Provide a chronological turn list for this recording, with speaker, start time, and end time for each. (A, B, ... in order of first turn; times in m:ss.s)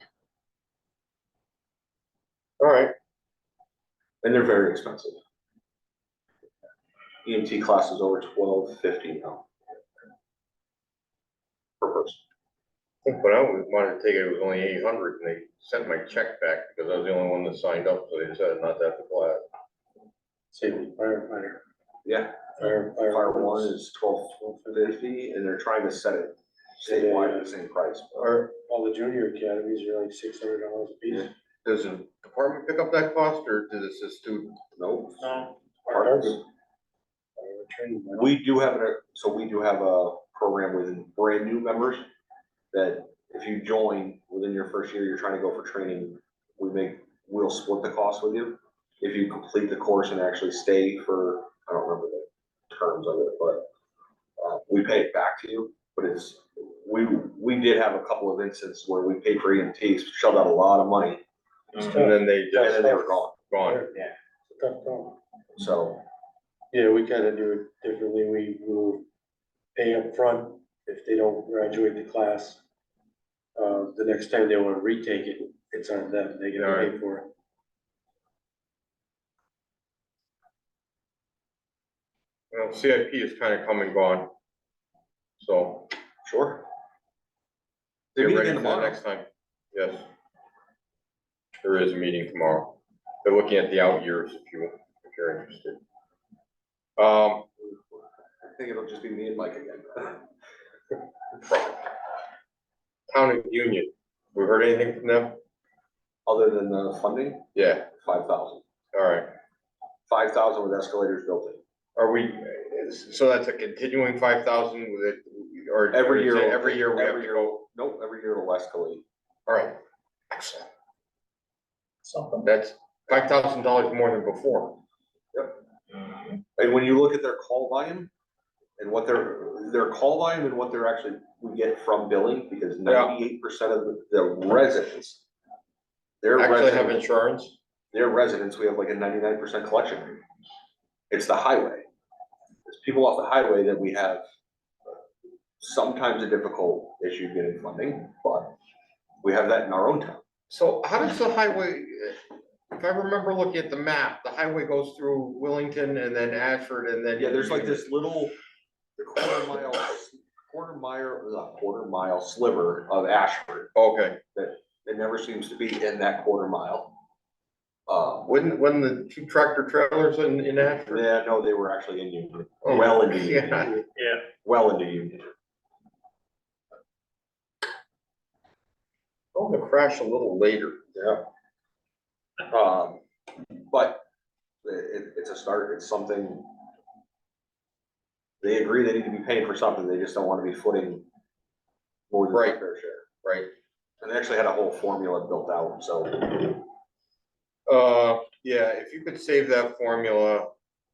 0:02.6-0:02.9 A
0:04.2-0:05.2 B
0:07.2-0:09.5 B
0:11.8-0:12.2 B
0:13.0-0:19.4 A
0:20.5-0:21.6 C
0:22.0-0:28.3 B
0:22.6-0:23.7 C
0:24.3-0:24.9 C
0:26.8-0:27.6 C
0:28.2-0:28.4 A
0:28.5-0:31.3 C
0:31.6-0:34.6 A
0:34.8-0:36.4 B
0:35.8-0:36.4 C
0:37.4-0:38.3 C
0:38.1-0:42.0 B
0:42.7-0:53.7 B
0:54.4-1:01.2 B
1:01.7-1:02.2 C
1:01.8-1:02.8 A
1:02.5-1:03.4 B
1:02.7-1:05.2 C
1:03.4-1:03.8 A
1:05.6-1:06.0 B
1:06.7-1:09.0 C
1:09.7-1:12.6 C
1:13.6-1:17.3 C
1:16.5-1:16.9 A
1:22.5-1:24.3 A
1:25.4-1:25.9 A
1:26.2-1:26.6 B
1:28.1-1:29.0 B
1:28.2-1:30.1 A
1:31.6-1:35.8 A
1:37.0-1:37.5 A
1:37.6-1:40.2 B
1:43.1-1:45.4 A
1:46.2-1:48.6 B
1:47.5-1:47.9 A
1:48.9-1:49.3 A
1:50.1-1:51.6 B
1:52.0-1:57.6 A
1:55.9-1:59.0 B
1:59.5-1:59.8 A
2:00.3-2:00.7 A
2:02.4-2:04.8 A
2:06.6-2:08.1 B
2:08.8-2:15.2 B
2:12.8-2:13.2 A
2:16.2-2:17.0 B
2:16.4-2:17.6 A
2:17.9-2:20.2 B
2:21.1-2:21.8 B
2:22.6-2:24.2 B
2:25.6-2:28.5 B
2:29.2-2:30.2 B
2:30.5-2:37.9 A
2:37.2-2:38.3 B
2:39.0-2:43.7 B
2:43.7-2:44.2 A
2:44.3-2:46.9 B
2:47.9-2:48.3 B
2:48.2-2:51.0 A
2:50.9-2:55.3 B
2:52.6-2:53.8 A
2:59.3-3:00.8 A
3:00.9-3:01.2 B
3:02.5-3:03.0 B
3:03.7-3:04.0 B
3:04.6-3:06.5 B
3:08.4-3:11.1 B
3:12.1-3:13.0 B
3:12.3-3:12.6 A
3:13.2-3:13.5 A
3:14.0-3:16.6 B
3:17.7-3:20.5 A